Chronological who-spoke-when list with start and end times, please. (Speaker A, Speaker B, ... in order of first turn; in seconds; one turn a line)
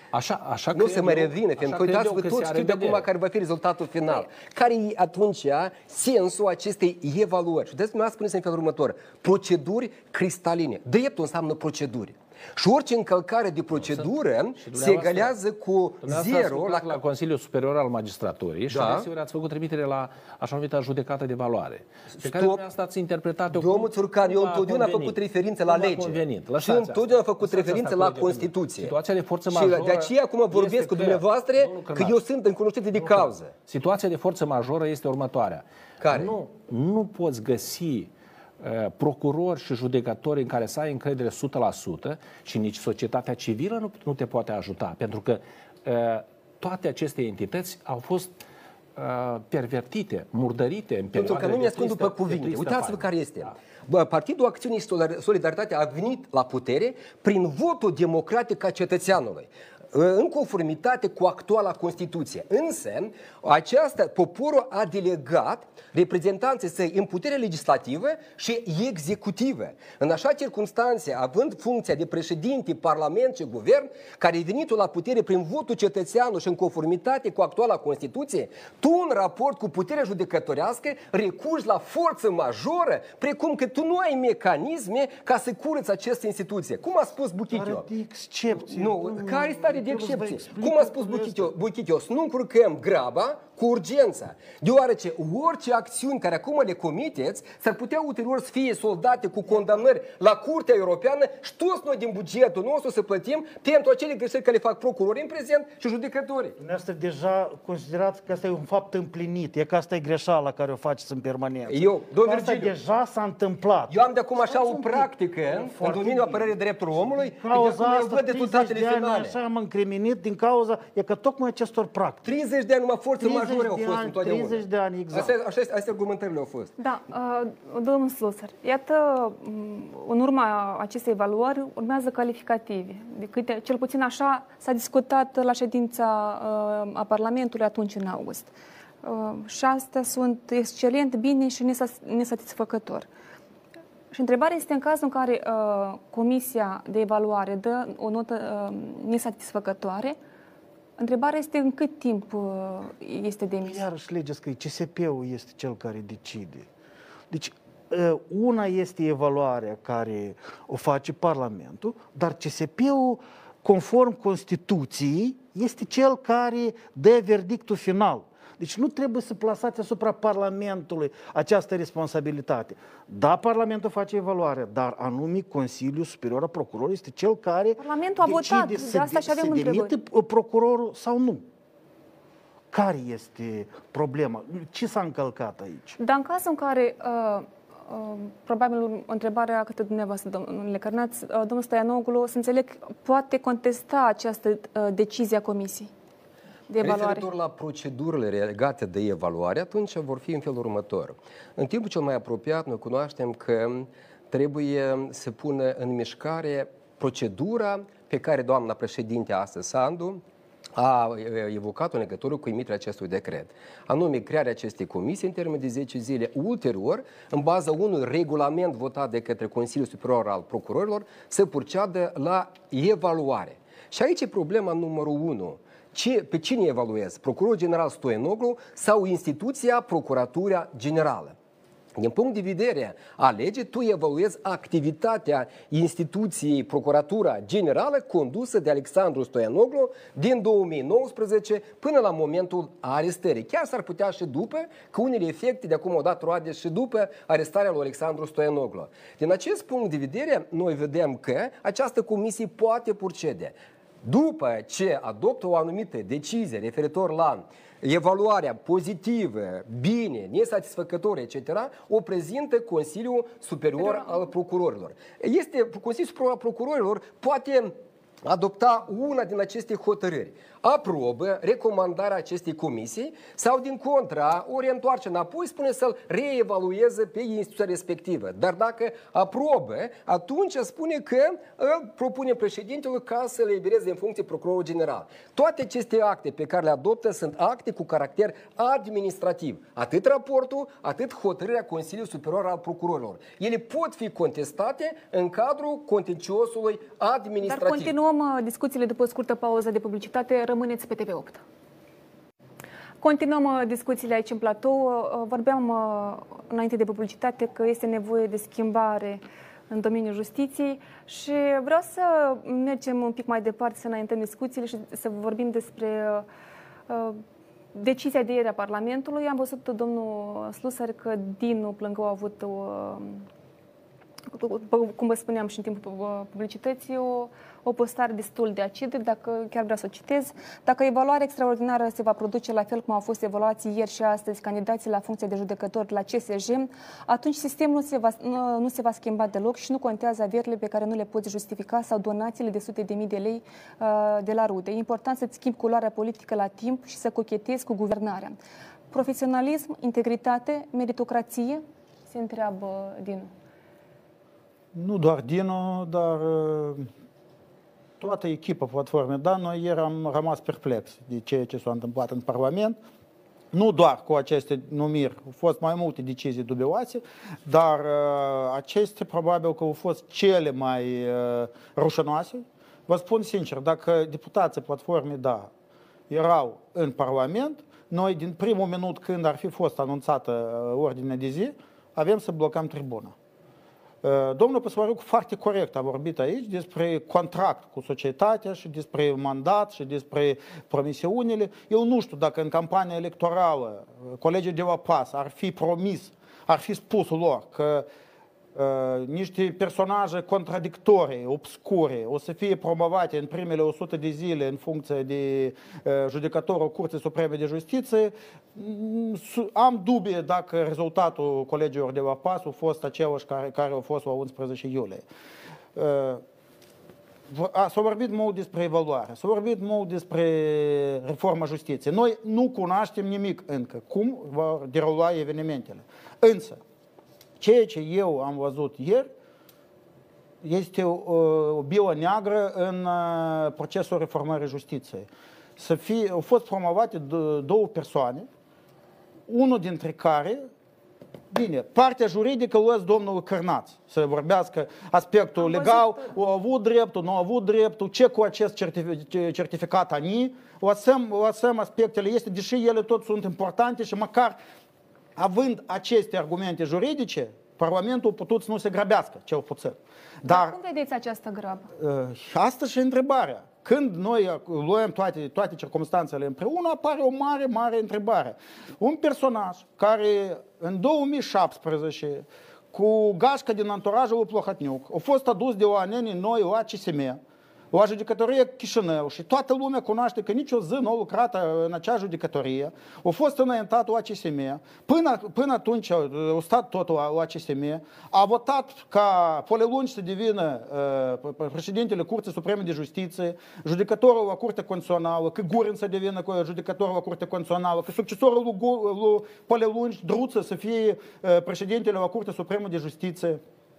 Speaker A: 0.1-3.1
Speaker B: 0.7-17.0
Speaker A: 13.7-15.3
Speaker A: 16.0-32.2
Speaker B: 18.7-19.1
Speaker B: 22.2-22.6
Speaker B: 23.5-28.9
Speaker B: 29.5-33.5
Speaker A: 32.9-48.3
Speaker B: 36.0-36.3
Speaker A: 49.0-53.5
Speaker B: 51.1-87.9
Speaker C: 87.5-91.5
Speaker B: 88.6-106.6
Speaker C: 106.6-116.5
Speaker B: 111.7-112.8
Speaker B: 113.9-119.4
Speaker C: 117.1-122.3
Speaker B: 122.2-126.7
Speaker C: 123.2-125.3
Speaker D: 126.8-138.5
Speaker D: 139.0-143.1
Speaker D: 144.1-150.2
Speaker D: 151.0-153.8
Speaker C: 153.6-156.7
Speaker C: 157.3-181.4
Speaker D: 177.8-179.9
Speaker C: 182.7-186.0
Speaker D: 186.0-195.9
Speaker D: 196.7-197.2
Speaker B: 196.8-210.2
Speaker B: 210.8-231.3
Speaker B: 231.9-297.9
Speaker D: 263.8-264.2
Speaker D: 297.4-301.4
Speaker D: 303.0-316.2
Speaker D: 316.9-317.2
Speaker D: 317.7-323.2
Speaker D: 324.3-348.4
Speaker D: 348.9-353.3
Speaker E: 354.7-356.9
Speaker E: 358.0-362.8
Speaker E: 363.5-375.5
Speaker E: 376.1-383.1
Speaker E: 384.0-397.9
Speaker E: 398.5-415.0
Speaker E: 415.7-416.2
Speaker E: 417.3-426.6
Speaker E: 427.4-429.1
Speaker E: 430.4-438.3
Speaker E: 439.3-440.5
Speaker E: 441.3-454.4
Speaker D: 445.4-446.1
Speaker E: 455.2-460.5
Speaker D: 460.2-461.7
Speaker E: 461.8-477.2
Speaker E: 477.7-503.4